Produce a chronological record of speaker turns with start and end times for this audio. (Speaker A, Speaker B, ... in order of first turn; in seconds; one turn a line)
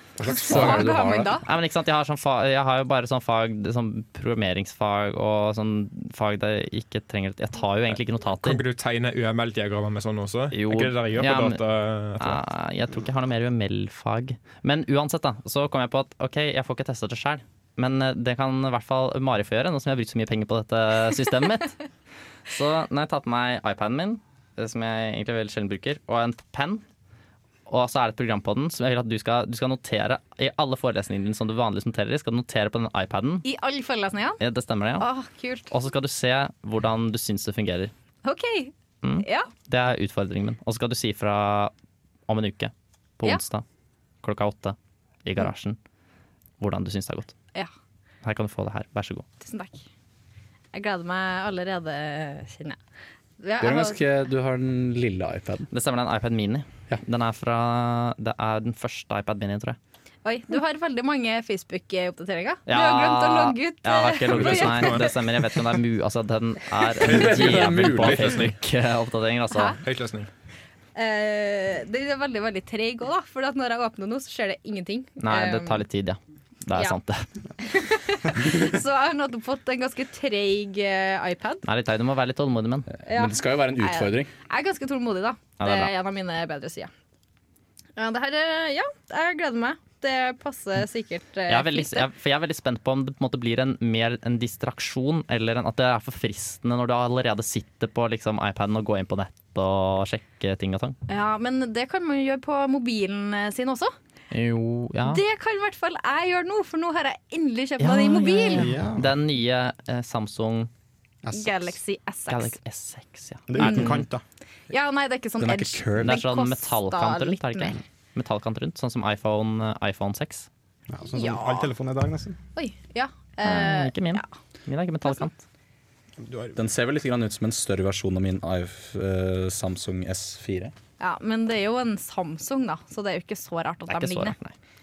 Speaker A: 0.2-1.4
Speaker B: 0.2-1.4
Speaker C: 0.5-0.8
Speaker C: 1.4-8.6
Speaker D: 8.4-12.4
Speaker C: 10.5-11.6
Speaker C: 12.2-21.8
Speaker C: 22.5-26.8
Speaker C: 27.7-33.5
Speaker B: 33.4-34.4
Speaker C: 34.4-35.1
Speaker B: 35.0-35.7
Speaker C: 35.7-37.9
Speaker B: 38.2-39.5
Speaker C: 39.0-41.7
Speaker C: 42.3-43.6
Speaker C: 44.2-45.8
Speaker C: 46.6-47.3
Speaker C: 48.2-49.2
Speaker B: 49.4-49.8
Speaker B: 50.7-52.8
Speaker B: 53.4-54.0
Speaker A: 53.6-55.7
Speaker C: 55.7-59.8
Speaker B: 60.2-65.1
Speaker C: 62.7-69.8
Speaker D: 64.3-65.2
Speaker D: 67.0-68.6
Speaker A: 67.0-68.5
Speaker B: 69.5-69.8
Speaker D: 69.8-70.3
Speaker B: 71.0-75.8
Speaker C: 75.2-77.3
Speaker B: 77.6-81.6
Speaker C: 81.6-82.9
Speaker A: 82.9-84.3
Speaker B: 83.0-86.9
Speaker C: 85.6-85.9
Speaker B: 88.0-92.1
Speaker C: 91.5-101.0
Speaker B: 101.1-103.9
Speaker C: 104.3-105.2
Speaker B: 105.0-108.7
Speaker C: 107.8-110.7
Speaker E: 108.5-109.1
Speaker E: 111.2-111.7
Speaker B: 111.3-112.5
Speaker C: 112.3-114.1
Speaker E: 113.5-114.2
Speaker B: 113.6-114.0
Speaker B: 114.7-117.8
Speaker A: 115.4-116.2
Speaker C: 116.0-120.5
Speaker E: 120.9-122.4
Speaker B: 121.1-121.7
Speaker B: 122.5-124.3
Speaker C: 123.4-125.4
Speaker E: 126.2-126.6
Speaker A: 126.5-130.7
Speaker B: 131.0-134.3
Speaker C: 133.9-134.5